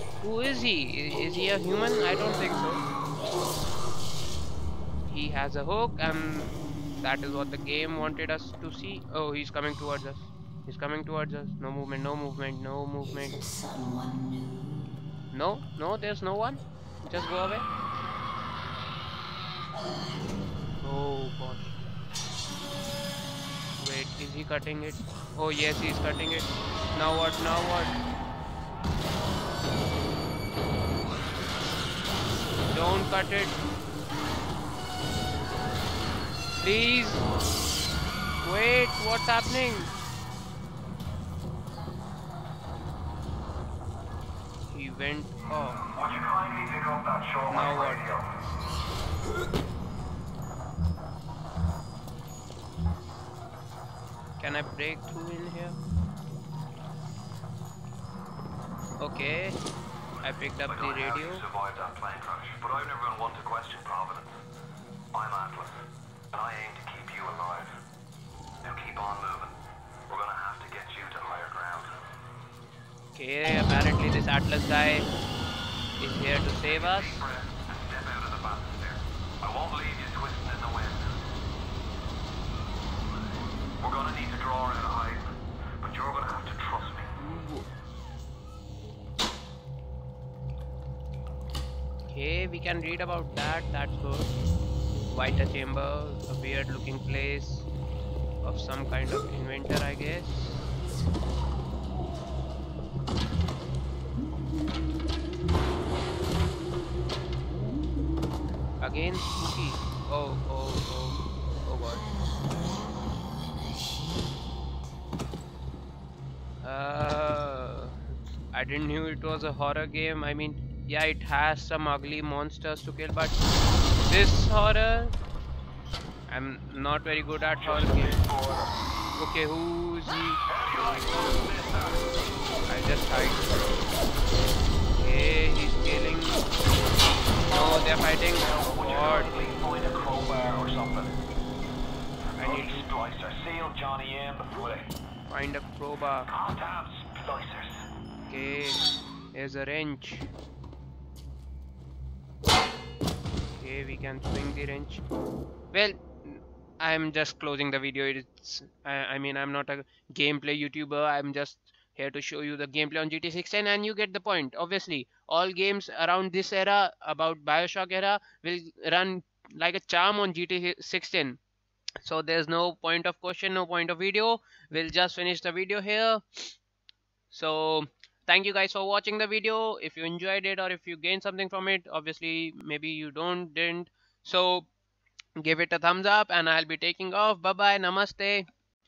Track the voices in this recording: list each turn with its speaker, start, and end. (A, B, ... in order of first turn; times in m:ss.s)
0:00.2-0:02.9 A
0:05.1-0:13.5 A
0:15.3-0:17.7 A
0:20.8-0:21.9 A
0:23.8-0:27.9 A
0:32.7-0:33.6 A
0:36.6-0:37.2 A
0:38.4-0:39.9 A
0:44.7-0:45.8 A
0:45.9-0:48.3 B
0:47.5-0:48.1 A
0:54.4-0:55.8 A
0:59.0-0:59.6 A
1:00.2-1:04.4 B
1:00.2-1:01.4 A
1:05.1-1:07.8 B
1:08.6-1:12.0 B
1:13.1-1:15.1 A
1:16.0-1:17.2 A
1:16.6-1:21.2 B
1:23.8-1:25.3 B
1:25.8-1:27.1 B
1:27.2-1:27.6 A
1:32.1-1:34.3 A
1:35.1-1:37.7 A
1:38.4-1:40.6 A
1:48.8-1:52.1 A
1:56.6-1:57.9 A
1:58.5-2:03.4 A
2:04.0-2:05.1 A
2:06.3-2:08.2 A
2:07.5-2:08.7 B
2:09.2-2:10.4 A
2:10.5-2:12.0 B
2:12.7-2:13.6 A
2:14.9-2:16.4 A
2:17.4-2:19.3 A
2:18.3-2:21.2 B
2:22.4-2:22.9 A
2:22.4-2:24.9 B
2:25.3-2:26.3 A
2:26.3-2:27.7 B
2:28.3-2:28.8 A
2:29.3-2:30.3 A
2:33.5-2:35.0 A
2:35.7-2:51.4 A
2:52.0-2:56.5 A
2:57.3-3:04.7 A
3:05.4-3:08.4 A